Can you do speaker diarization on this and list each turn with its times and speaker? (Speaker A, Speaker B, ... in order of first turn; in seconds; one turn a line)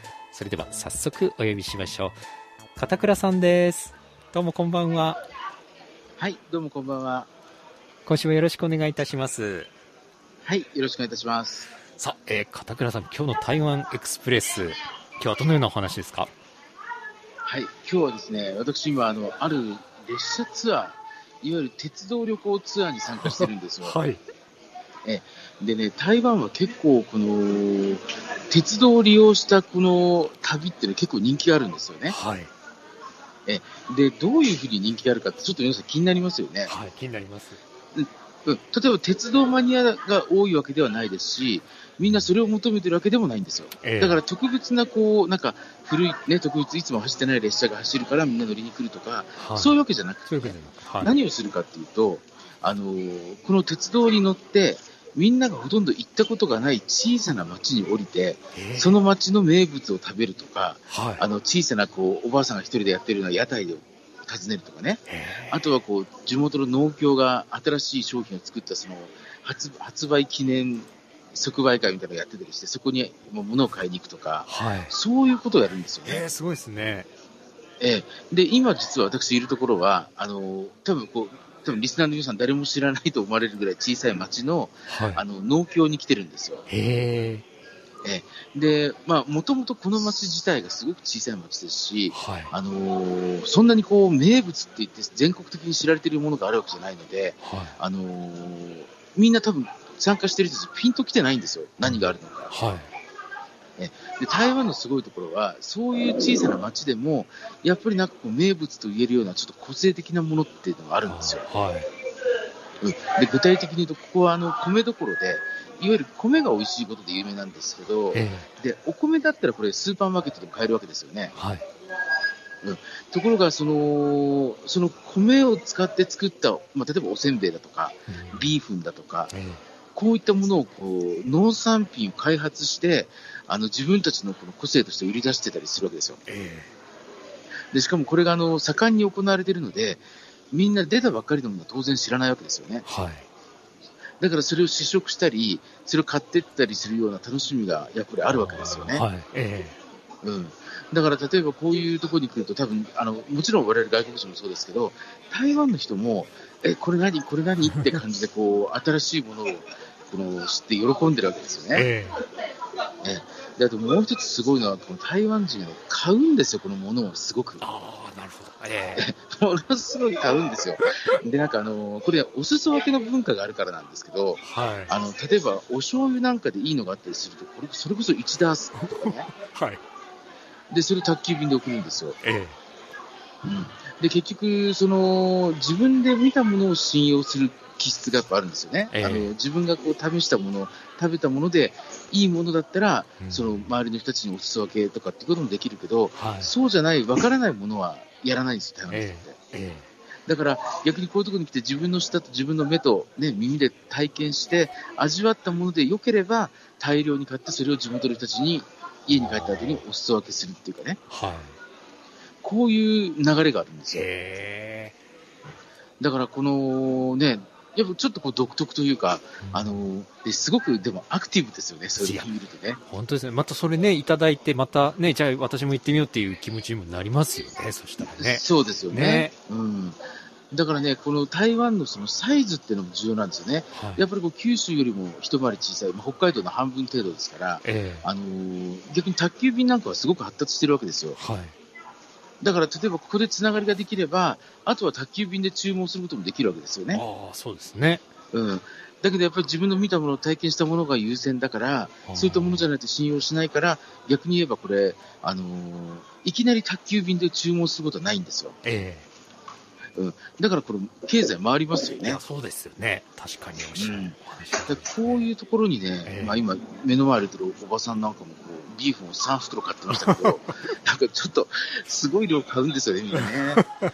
Speaker A: 0.3-2.2
Speaker A: 2.8-5.2
Speaker B: 6.2-7.3
Speaker A: 8.1-9.7
Speaker B: 10.4-11.7
Speaker A: 12.0-16.3
Speaker B: 17.5-24.0
Speaker A: 23.2-24.2
Speaker B: 25.1-32.2
Speaker A: 32.1-32.5
Speaker B: 33.5-36.7
Speaker A: 36.7-37.6
Speaker B: 38.0-76.3
Speaker A: 43.8-44.2
Speaker A: 49.4-49.8
Speaker A: 50.3-51.1
Speaker A: 58.5-59.0
Speaker A: 60.9-61.2
Speaker A: 65.1-65.5
Speaker A: 74.5-74.9
Speaker A: 76.0-77.1
Speaker B: 77.8-86.7
Speaker A: 84.9-85.2
Speaker A: 86.7-87.5
Speaker B: 88.0-102.5
Speaker A: 92.1-92.5
Speaker A: 97.4-97.8
Speaker A: 102.5-102.9
Speaker B: 103.8-111.5
Speaker A: 111.1-111.9
Speaker B: 112.8-121.3
Speaker A: 118.1-118.5
Speaker A: 121.4-121.7
Speaker B: 122.6-129.3
Speaker A: 128.1-128.5
Speaker A: 129.3-129.6
Speaker B: 129.9-136.2
Speaker A: 136.3-136.7
Speaker B: 137.7-142.9
Speaker A: 142.9-143.3
Speaker B: 144.2-149.1
Speaker A: 148.3-149.8
Speaker B: 150.2-161.9
Speaker A: 161.7-162.2
Speaker B: 163.0-167.6
Speaker A: 167.6-169.1
Speaker B: 169.0-179.3
Speaker A: 174.4-174.9
Speaker A: 178.8-179.8
Speaker B: 180.7-182.2
Speaker A: 182.2-182.6
Speaker B: 183.4-199.3
Speaker A: 188.9-189.3
Speaker A: 193.2-193.7
Speaker A: 196.2-196.5
Speaker A: 198.9-199.9
Speaker B: 200.3-211.0
Speaker A: 209.1-209.8
Speaker A: 211.1-211.6
Speaker B: 212.4-214.1
Speaker A: 213.9-214.9
Speaker B: 216.0-222.8
Speaker A: 219.4-219.8
Speaker A: 222.0-222.3
Speaker A: 222.9-229.3
Speaker B: 228.1-230.0
Speaker B: 230.5-241.2
Speaker A: 233.7-234.0
Speaker A: 237.6-238.1
Speaker A: 241.2-241.6
Speaker B: 242.4-247.0
Speaker A: 246.9-248.1
Speaker B: 248.3-258.6
Speaker A: 252.1-252.7
Speaker A: 258.6-259.1
Speaker B: 259.9-262.2
Speaker A: 262.0-265.2
Speaker B: 263.8-264.2
Speaker B: 264.7-273.6
Speaker A: 266.1-266.4
Speaker A: 270.0-270.4